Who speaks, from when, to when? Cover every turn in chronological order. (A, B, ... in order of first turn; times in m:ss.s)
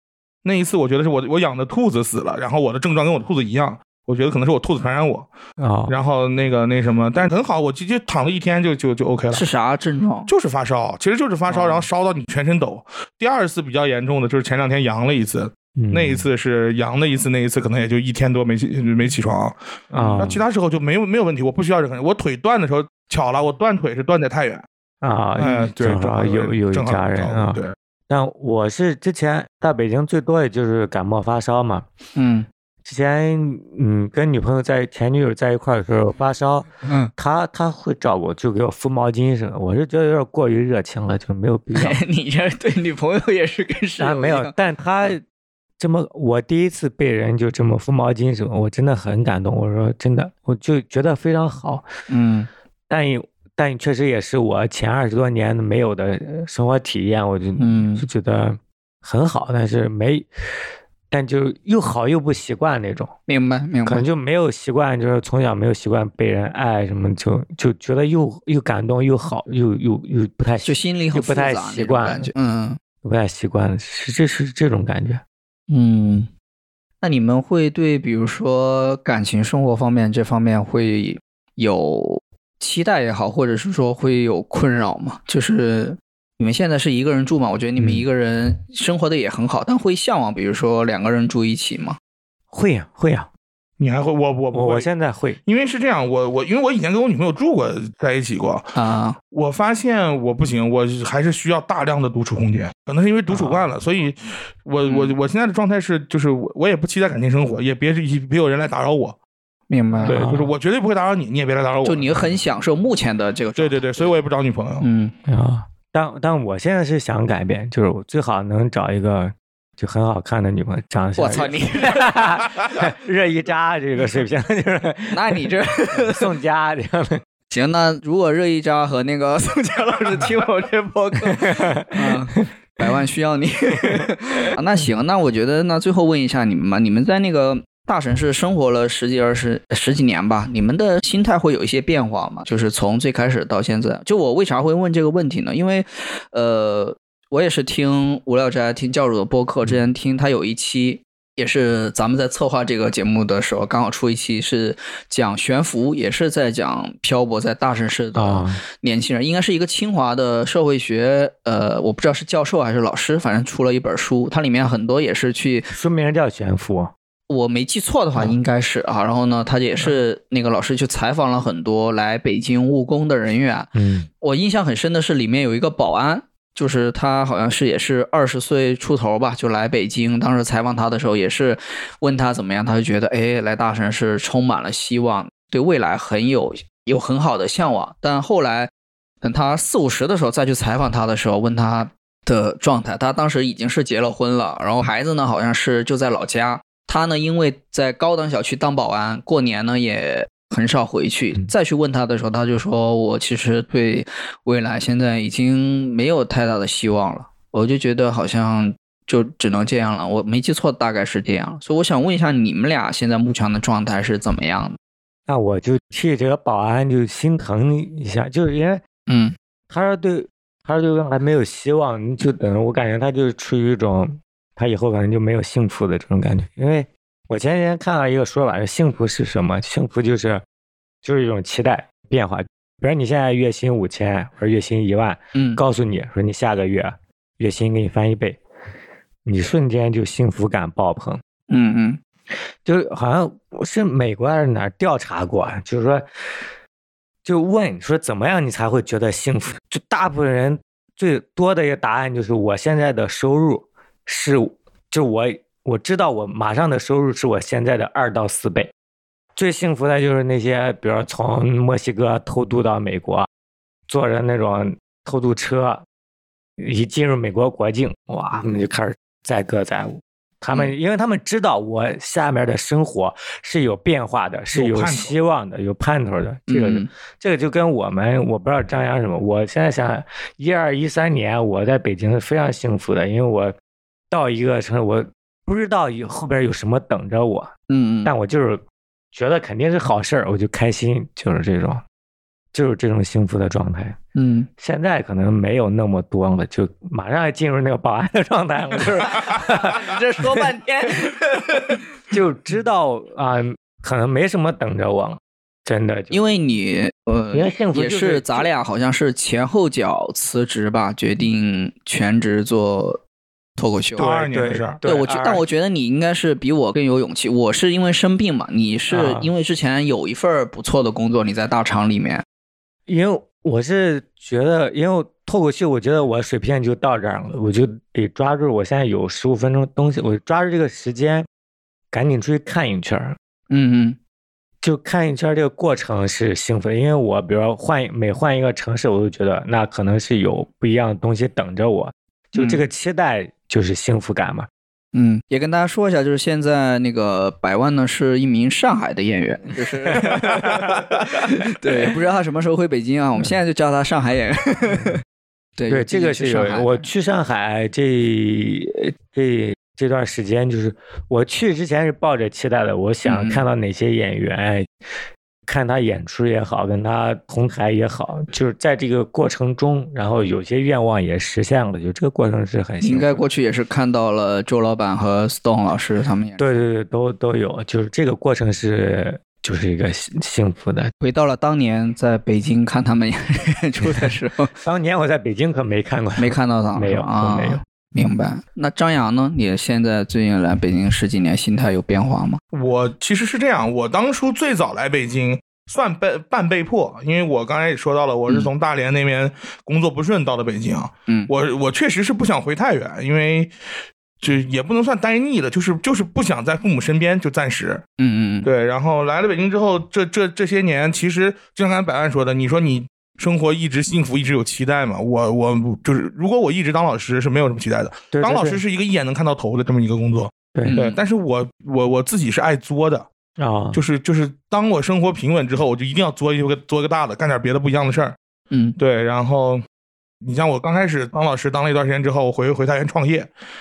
0:00.4-0:05.3 A
0:05.6-0:05.9 B
0:05.9-0:09.4 A
0:09.3-0:10.3 C
0:10.3-0:24.6 A
0:11.5-0:11.8 C
0:15.8-0:16.3 B
0:19.9-0:20.4 B
0:25.0-0:31.8 B
0:25.4-0:27.7 A
0:32.2-0:32.5 C
0:32.8-0:42.0 B
0:36.8-0:37.1 C
0:41.7-0:44.5 C
0:44.0-0:45.2 B
0:45.8-0:51.9 B
0:52.1-0:52.5 C
0:52.9-1:00.3 B
0:57.6-0:58.0 C
1:01.1-1:03.1 B
1:03.3-1:04.0 C
1:03.8-1:12.3 B
1:10.6-1:12.8 C
1:13.0-1:15.2 B
1:15.7-1:16.3 C
1:17.0-1:32.0 C
1:27.8-1:28.0 B
1:32.5-1:33.3 B
1:33.8-1:34.9 A
1:34.5-1:35.4 B
1:35.4-1:38.7 A
1:38.7-1:39.2 C
1:39.3-1:49.2 A
1:43.3-1:43.6 B
1:44.8-1:45.2 C
1:49.7-1:50.2 C
1:50.0-1:52.2 A
1:50.0-1:50.5 B
1:51.8-1:54.1 C
1:53.6-1:54.9 A
1:54.8-1:55.1 C
1:55.3-2:07.2 B
2:01.2-2:02.1 C
2:05.1-2:06.3 C
2:07.5-2:45.7 C
2:11.4-2:12.4 B
2:38.1-2:38.6 B
2:45.7-2:46.9 B
2:47.3-3:08.7 C
2:53.7-2:54.1 B
3:09.2-3:34.8 C
3:35.3-3:38.8 B
3:39.1-3:39.3 C
3:39.7-3:50.4 B
3:51.0-3:58.4 B
3:55.3-3:55.6 C
3:59.2-4:01.2 B
4:01.5-4:02.0 C
4:02.3-4:06.0 B
4:07.2-4:18.7 B
4:19.4-4:23.3 B
4:23.9-4:25.8 B
4:26.6-4:43.5 B
4:34.5-4:35.1 A
4:36.5-4:36.9 C
4:44.1-4:47.5 B
4:47.7-4:48.1 C
4:48.0-4:48.6 B
4:49.1-4:51.8 B
4:52.5-4:54.0 B
4:54.1-4:54.5 C
4:54.6-5:00.4 B
4:58.8-5:01.8 C
5:02.1-5:06.2 B
5:06.1-5:13.0 C
5:07.3-5:08.5 B
5:13.6-5:14.1 C
5:14.0-5:14.8 A
5:14.0-5:15.4 B
5:14.8-5:22.2 C
5:18.9-5:19.3 B
5:22.9-5:31.3 B
5:31.9-5:33.2 B
5:33.5-5:34.0 C
5:34.6-5:44.5 B
5:42.3-5:42.6 C
5:44.9-5:55.0 C
5:50.0-5:50.6 B
5:55.6-5:56.9 C
5:55.7-6:04.7 B
6:03.0-6:03.4 C
6:05.5-6:13.2 B
6:12.8-6:16.4 C
6:16.4-6:20.9 B
6:21.0-6:24.5 C
6:24.6-6:27.6 B
6:26.2-6:32.4 C
6:32.5-6:43.5 A
6:44.2-6:47.8 A
6:48.0-6:48.5 C
6:48.4-7:03.1 A
6:58.1-6:58.6 B
7:00.6-7:01.0 C
7:03.4-7:03.8 B
7:03.7-7:08.2 A
7:08.5-7:08.8 C
7:08.8-7:09.6 A
7:10.2-7:13.3 A